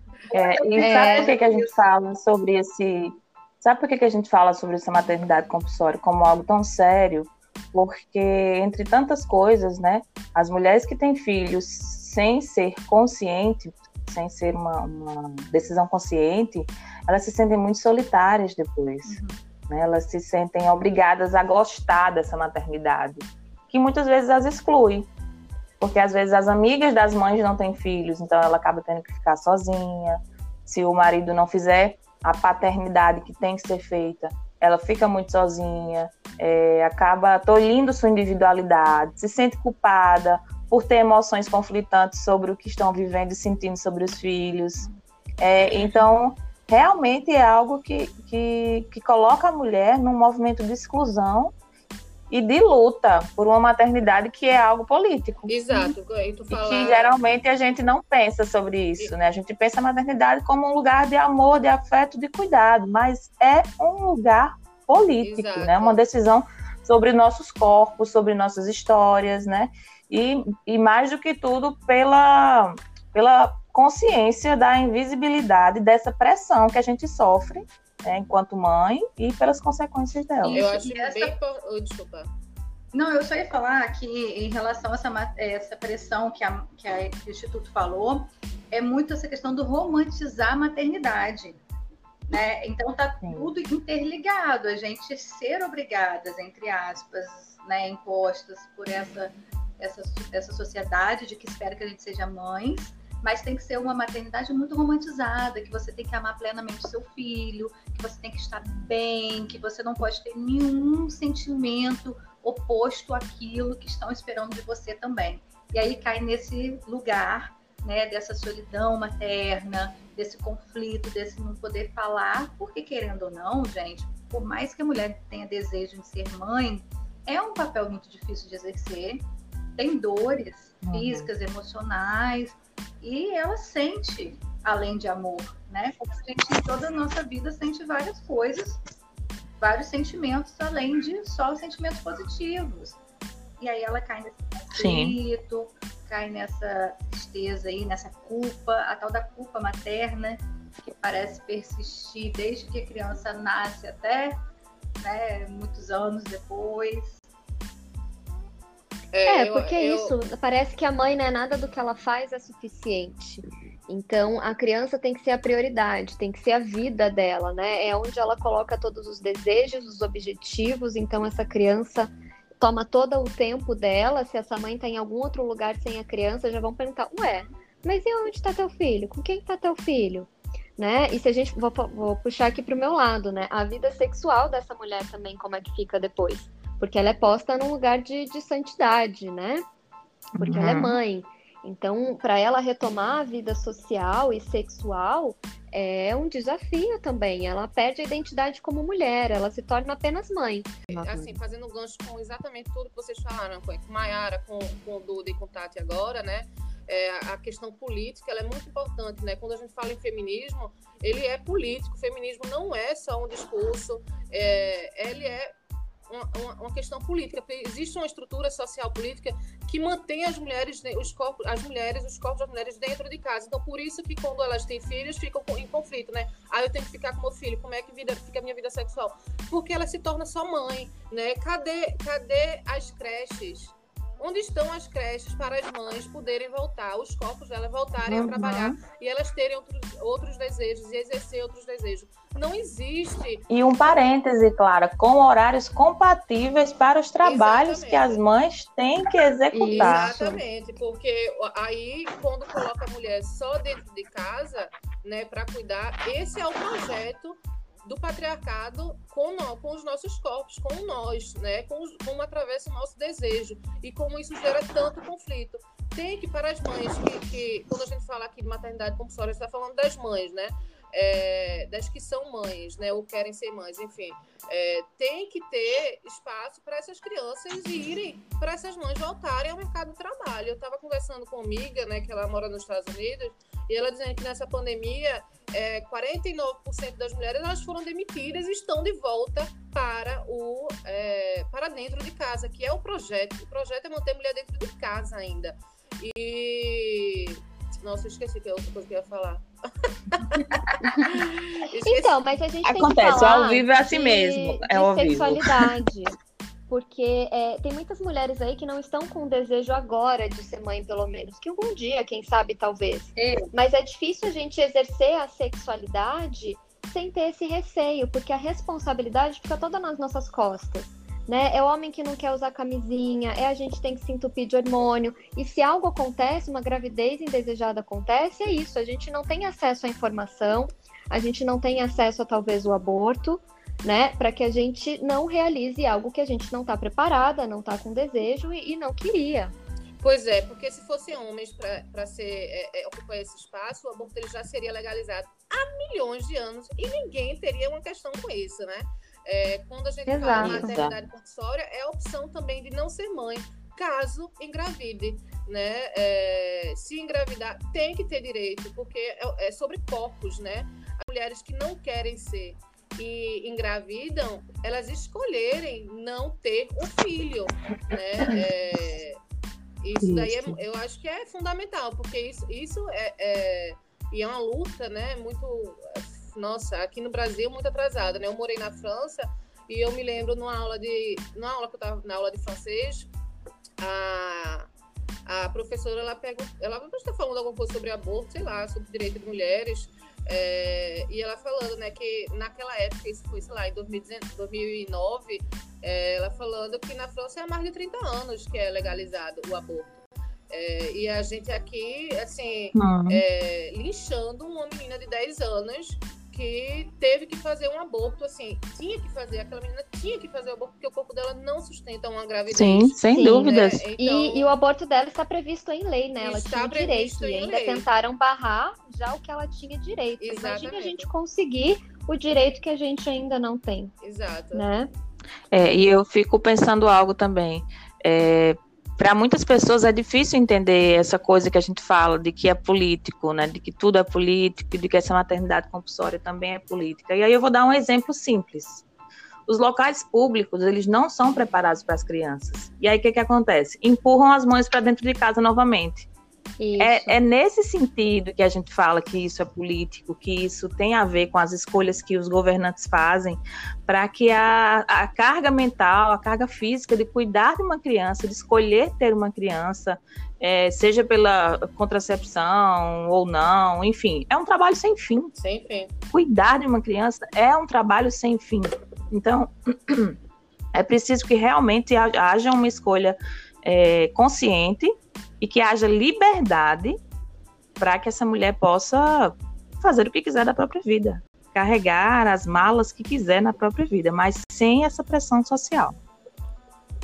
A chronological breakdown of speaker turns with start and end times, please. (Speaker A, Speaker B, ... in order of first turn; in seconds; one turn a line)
Speaker A: 0.3-1.8
Speaker B: 0.3-25.1
Speaker C: 0.8-1.4
Speaker A: 19.1-19.4
Speaker B: 25.8-44.9
Speaker B: 45.4-51.5
Speaker B: 52.3-55.5
Speaker D: 55.5-57.2
Speaker A: 55.7-56.0
Speaker B: 56.5-80.7
Speaker D: 65.2-66.0
Speaker A: 80.4-81.3
Speaker D: 80.5-82.3
Speaker A: 82.9-91.6
Speaker A: 92.3-129.3
Speaker B: 93.3-93.5
Speaker A: 129.8-138.8
Speaker B: 130.9-131.3
Speaker A: 139.6-143.0
Speaker A: 143.6-154.4
Speaker B: 144.7-145.2
Speaker A: 155.0-157.2
Speaker D: 159.1-160.1
Speaker C: 159.3-189.7
Speaker B: 190.3-191.0
Speaker C: 190.4-201.0
Speaker D: 200.9-215.5
Speaker B: 201.0-201.3
Speaker D: 216.1-243.4
Speaker B: 238.0-238.8
Speaker B: 243.5-250.4
Speaker D: 247.2-248.2
Speaker C: 249.5-250.2
Speaker D: 249.7-302.2
Speaker C: 301.9-306.1
Speaker B: 302.6-305.7
Speaker C: 306.7-339.6
Speaker A: 313.2-313.5
Speaker D: 340.0-369.2
Speaker C: 350.1-350.7
Speaker B: 350.4-351.0
Speaker D: 369.8-383.1
Speaker B: 370.0-370.6
Speaker D: 383.8-384.7
Speaker D: 385.3-414.5
Speaker B: 402.8-403.2
Speaker B: 412.5-413.9
Speaker C: 413.1-423.9
Speaker D: 416.2-417.9
Speaker D: 420.2-421.1
Speaker D: 424.0-424.6
Speaker C: 424.5-424.9
Speaker B: 425.5-438.8
Speaker B: 439.5-446.1
Speaker C: 446.6-447.2
Speaker B: 446.8-465.3
Speaker D: 465.4-465.9
Speaker B: 466.1-470.2
Speaker B: 470.7-477.0
Speaker B: 477.8-486.0